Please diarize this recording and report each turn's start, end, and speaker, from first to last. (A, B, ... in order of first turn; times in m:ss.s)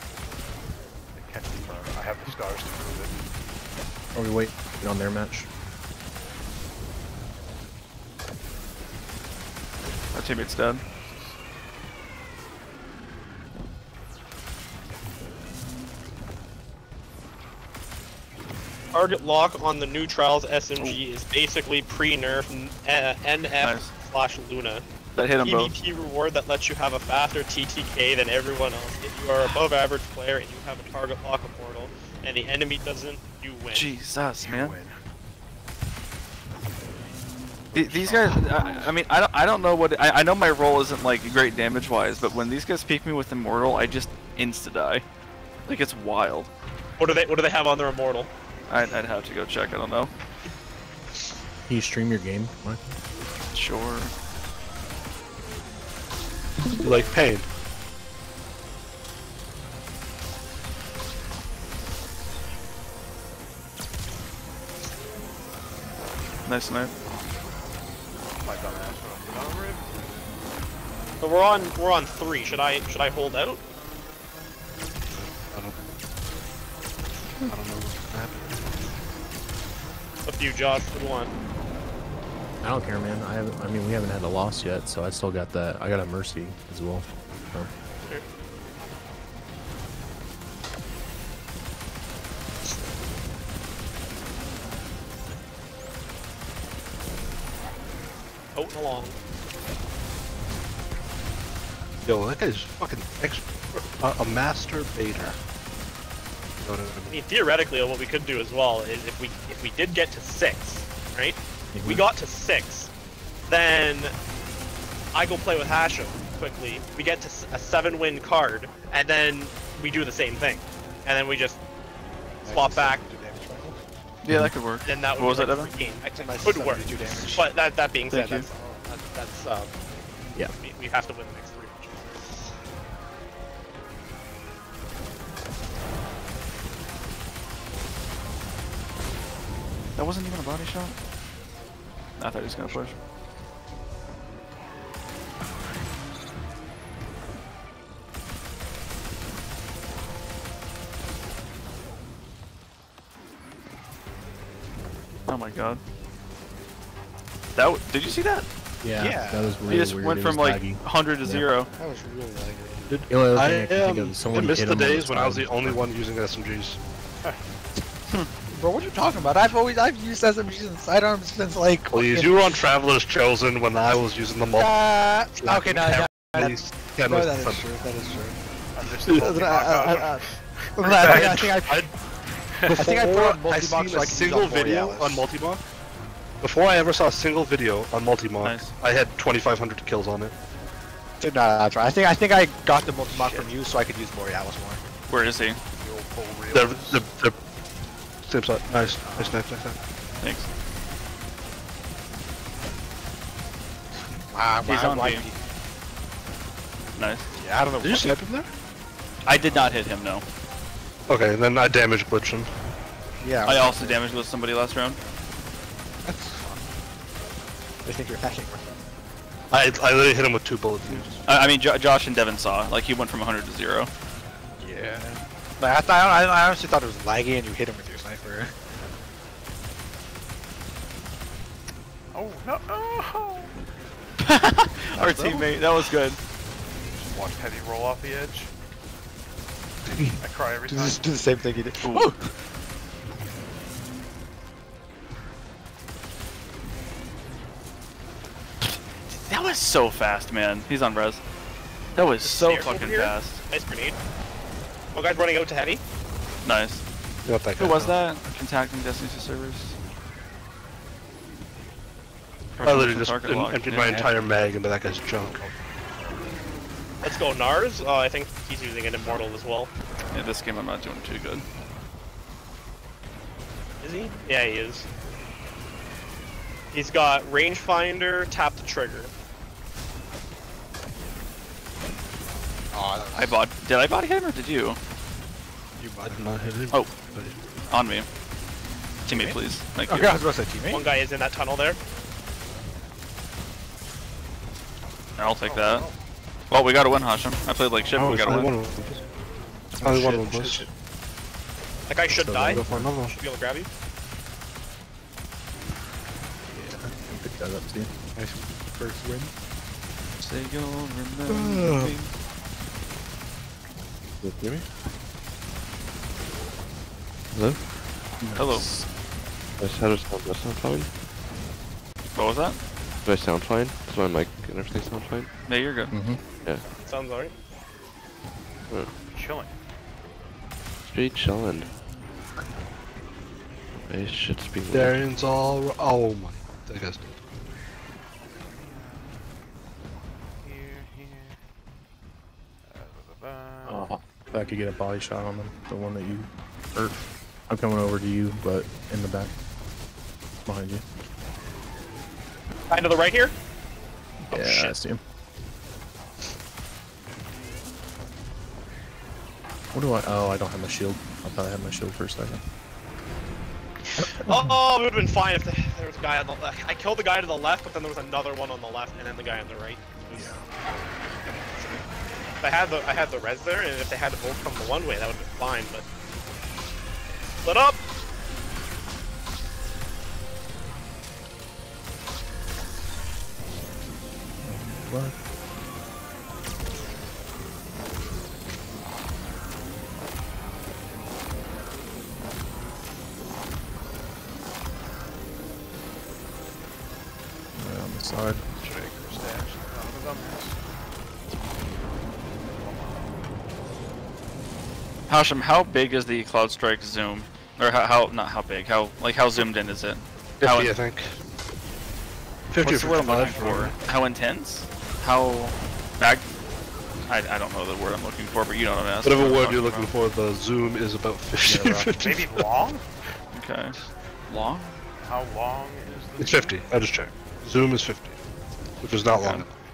0:01.1-0:03.2 A
0:04.1-0:05.5 B
0:10.1-0:10.8 C
0:10.8-0:11.4 A
0:18.9-0:24.8 D
0:23.6-0:23.9 C
0:25.2-0:25.7 C
0:25.4-0:33.9 D
0:33.7-0:34.8 C
0:34.4-0:35.0 A
0:37.7-0:38.9 A
0:37.7-0:45.0 C
0:45.6-0:46.5 C
0:47.0-0:48.3 D
0:48.7-0:50.1 C
0:51.7-0:53.0 B
0:53.5-0:54.1 C
0:56.8-0:57.4 E
1:06.4-1:06.9 C
1:08.4-1:09.9 A
1:11.2-1:13.6 D
1:15.1-1:15.8 E
1:17.4-1:18.6 E
1:20.2-1:21.3 D
1:22.6-1:27.7 B
1:38.5-1:39.2 D
1:42.0-1:45.4 E
1:46.6-1:47.1 E
1:47.1-1:52.9 D
1:51.7-1:52.0 B
1:53.5-1:54.1 D
1:55.1-2:01.6 D
2:02.4-2:03.8 F
2:02.5-2:03.0 D
2:04.2-2:05.7 C
2:04.3-2:04.5 B
2:04.8-2:09.7 D
2:06.1-2:07.6 F
2:08.1-2:08.4 C
2:08.4-2:08.8 F
2:10.6-2:12.3 D
2:20.0-2:21.0 C
2:22.2-2:23.0 C
2:35.3-2:35.8 C
2:37.5-2:38.4 C
2:38.8-2:41.5 B
2:39.0-2:39.7 F
2:39.7-2:41.7 C
2:41.7-2:42.9 F
2:42.9-2:46.8 E
2:43.1-2:45.8 B
2:48.5-2:52.4 F
2:51.9-2:57.7 E
2:54.5-2:58.4 F
2:58.7-3:01.5 A
2:59.1-2:59.5 E
2:59.1-3:01.9 F
3:00.8-3:01.9 E
3:02.5-3:02.9 A
3:02.6-3:05.6 E
3:02.7-3:05.2 F
3:06.4-3:10.3 E
3:08.4-3:08.7 C
3:11.2-3:14.8 F
3:13.1-3:13.4 E
3:15.1-3:15.6 C
3:15.8-3:17.0 A
3:16.5-3:17.4 E
3:18.2-3:19.8 E
3:19.0-3:19.4 F
3:20.2-3:20.5 C
3:24.0-3:25.3 F
3:24.6-3:25.3 C
3:27.0-3:27.3 C
3:27.4-3:28.1 F
3:27.8-3:28.5 E
3:29.2-3:30.2 C
3:31.1-3:32.5 E
3:33.2-3:34.0 F
3:33.4-3:35.0 C
3:36.0-3:36.7 F
3:37.8-3:38.6 F
3:39.5-3:41.2 E
3:41.2-3:43.9 C
3:44.6-3:48.5 F
3:52.1-3:53.5 A
3:54.2-3:56.2 C
3:55.0-3:55.4 F
3:56.9-3:58.5 A
4:00.2-4:01.1 A
4:00.7-4:02.2 F
4:01.8-4:02.1 C
4:08.6-4:11.2 C
4:12.0-4:13.4 C
4:12.2-4:14.0 D
4:14.9-4:15.8 D
4:16.4-4:16.8 C
4:17.2-4:18.0 E
4:17.6-4:19.7 C
4:22.6-4:24.1 C
4:22.6-4:25.4 E
4:23.8-4:24.2 F
4:25.8-4:26.3 A
4:27.0-4:29.7 D
4:30.1-4:31.4 C
4:33.8-4:34.8 D
4:36.7-4:39.1 D
4:42.7-4:43.4 F
4:43.1-4:44.8 C
4:45.8-4:46.3 F
4:46.0-4:47.4 E
4:47.7-4:48.1 C
4:49.0-4:50.9 F
4:49.0-4:50.2 C
4:50.7-4:51.8 D
4:55.2-4:55.8 C
4:55.2-4:56.0 A
4:56.5-4:58.5 C
4:58.0-4:59.0 E
4:59.8-5:00.6 B
4:59.8-5:00.7 E
5:01.9-5:03.7 D
5:02.1-5:02.9 B
5:02.4-5:03.2 E
5:06.6-5:07.9 B
5:08.1-5:09.3 F
5:10.2-5:12.1 C
5:11.3-5:12.0 F
5:14.2-5:14.7 G
5:17.3-5:17.6 G
5:18.2-5:18.9 B
5:18.4-5:18.7 C
5:19.6-5:20.9 G
5:22.1-5:22.6 C
5:23.0-5:25.3 G
5:25.4-5:25.9 C
5:25.9-5:26.2 B
5:26.8-5:27.3 D
5:28.7-5:28.9 G
5:29.1-5:29.5 A
5:30.8-5:31.7 G
5:33.7-5:35.0 G
5:34.7-5:37.1 E
5:38.5-5:39.1 A
5:40.4-5:41.4 A
5:42.6-5:44.0 A
5:43.6-5:47.0 B
5:47.5-5:49.3 B
5:50.4-5:50.8 B
5:52.7-5:53.3 D
5:54.3-5:54.7 D
5:54.3-5:55.0 B
5:59.7-6:02.4 B
6:03.9-6:10.3 D
6:04.0-6:04.6 B
6:10.1-6:10.4 B
6:11.5-6:11.8 D
6:12.4-6:15.8 D
6:17.2-6:17.8 D
6:24.4-6:25.1 B
6:37.6-6:38.4 B
6:38.6-6:40.6 A
6:42.4-6:43.1 A
6:45.1-6:50.7 C
6:50.4-6:51.2 E
6:52.5-6:53.8 E
6:52.6-6:56.2 C
6:57.1-6:59.9 C
6:59.0-7:02.4 E
7:01.4-7:02.0 B
7:02.0-7:02.9 A
7:03.3-7:03.8 C
7:04.3-7:04.8 C
7:05.0-7:06.6 A
7:06.2-7:08.2 E
7:08.8-7:09.5 E
7:09.1-7:09.4 C